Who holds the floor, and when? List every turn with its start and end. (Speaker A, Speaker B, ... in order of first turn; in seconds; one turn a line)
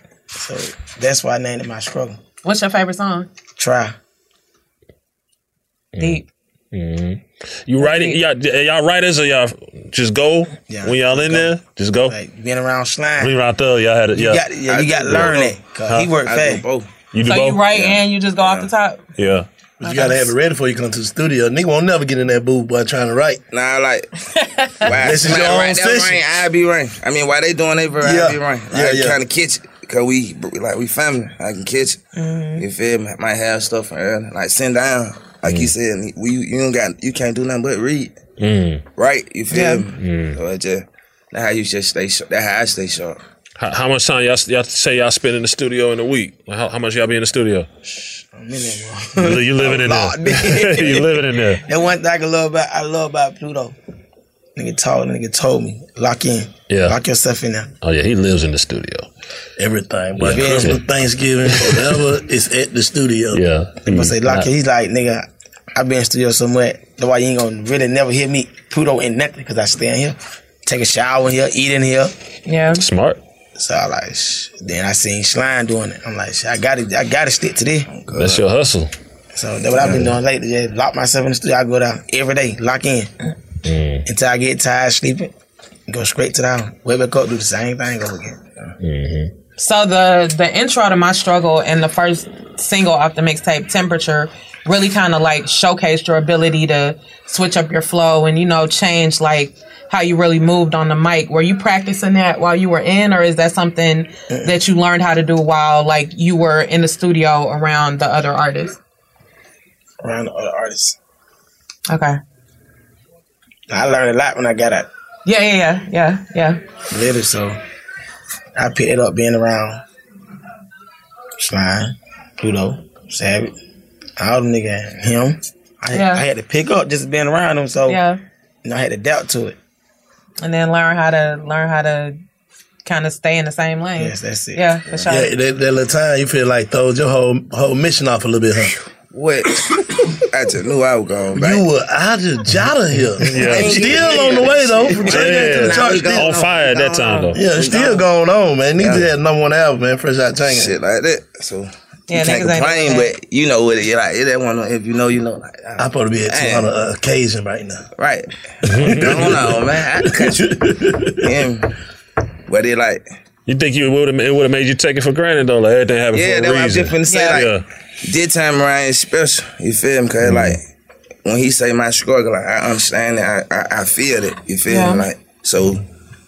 Speaker A: 0.3-2.2
Speaker B: 2.4-3.3
Speaker A: 3.6-4.0
Speaker C: 5.9-6.2
Speaker B: 6.0-6.2
Speaker C: 6.7-12.1
Speaker B: 7.8-8.2
Speaker A: 10.7-13.3
Speaker C: 13.2-14.4
Speaker A: 14.1-16.6
Speaker D: 14.7-15.6
Speaker C: 15.1-16.1
Speaker D: 16.2-16.9
Speaker C: 17.1-17.6
Speaker B: 17.2-19.0
Speaker D: 17.7-18.7
Speaker C: 19.2-19.5
Speaker E: 19.8-23.4
Speaker B: 19.8-20.3
Speaker D: 23.5-24.1
Speaker B: 24.4-24.7
Speaker D: 24.8-32.0
Speaker E: 24.9-26.4
Speaker E: 28.0-29.2
Speaker B: 32.1-32.6
Speaker D: 32.6-38.1
Speaker C: 35.5-35.7
Speaker C: 38.4-38.8
Speaker D: 39.0-43.2
Speaker B: 39.5-39.8
Speaker C: 40.0-40.4
Speaker C: 43.6-47.7
Speaker A: 48.3-53.7
Speaker C: 49.2-51.6
Speaker A: 54.5-57.7
Speaker C: 56.7-57.0
Speaker C: 57.8-59.1
Speaker E: 59.6-63.4
Speaker C: 60.2-60.8
Speaker A: 60.2-60.8
Speaker C: 61.5-61.9
Speaker C: 63.3-64.5
Speaker A: 63.9-72.1
Speaker B: 72.5-72.8
Speaker C: 72.7-73.2
Speaker A: 73.6-77.9
Speaker D: 77.9-78.4
Speaker C: 78.1-78.9
Speaker A: 79.3-83.1
Speaker D: 79.8-80.1
Speaker C: 83.6-84.0
Speaker A: 84.0-85.3
Speaker A: 85.9-88.5
Speaker C: 88.8-89.3
Speaker B: 89.6-108.8
Speaker A: 110.0-111.0
Speaker B: 111.9-112.2
Speaker A: 113.7-114.9
Speaker B: 115.2-116.6
Speaker A: 116.9-117.6
Speaker A: 118.5-119.8
Speaker A: 121.4-123.5
Speaker A: 124.2-128.0
Speaker B: 125.9-126.2
Speaker B: 127.9-128.2
Speaker A: 128.6-129.6
Speaker B: 130.4-132.2
Speaker B: 132.8-135.3
Speaker A: 133.9-135.0
Speaker E: 135.1-138.7
Speaker D: 139.1-141.6
Speaker E: 141.3-146.4
Speaker C: 143.2-143.9
Speaker D: 143.4-148.1
Speaker C: 145.0-147.4
Speaker E: 147.3-150.7
Speaker D: 148.8-149.1
Speaker D: 150.5-156.7
Speaker B: 152.1-153.1
Speaker E: 155.8-157.9
Speaker D: 158.0-160.6
Speaker C: 158.6-159.3
Speaker E: 158.8-161.3
Speaker D: 161.1-161.7
Speaker D: 162.5-163.0
Speaker C: 163.5-167.6
Speaker D: 166.1-167.5
Speaker B: 167.0-167.5
Speaker D: 168.0-170.6
Speaker D: 171.2-175.8
Speaker B: 174.7-175.1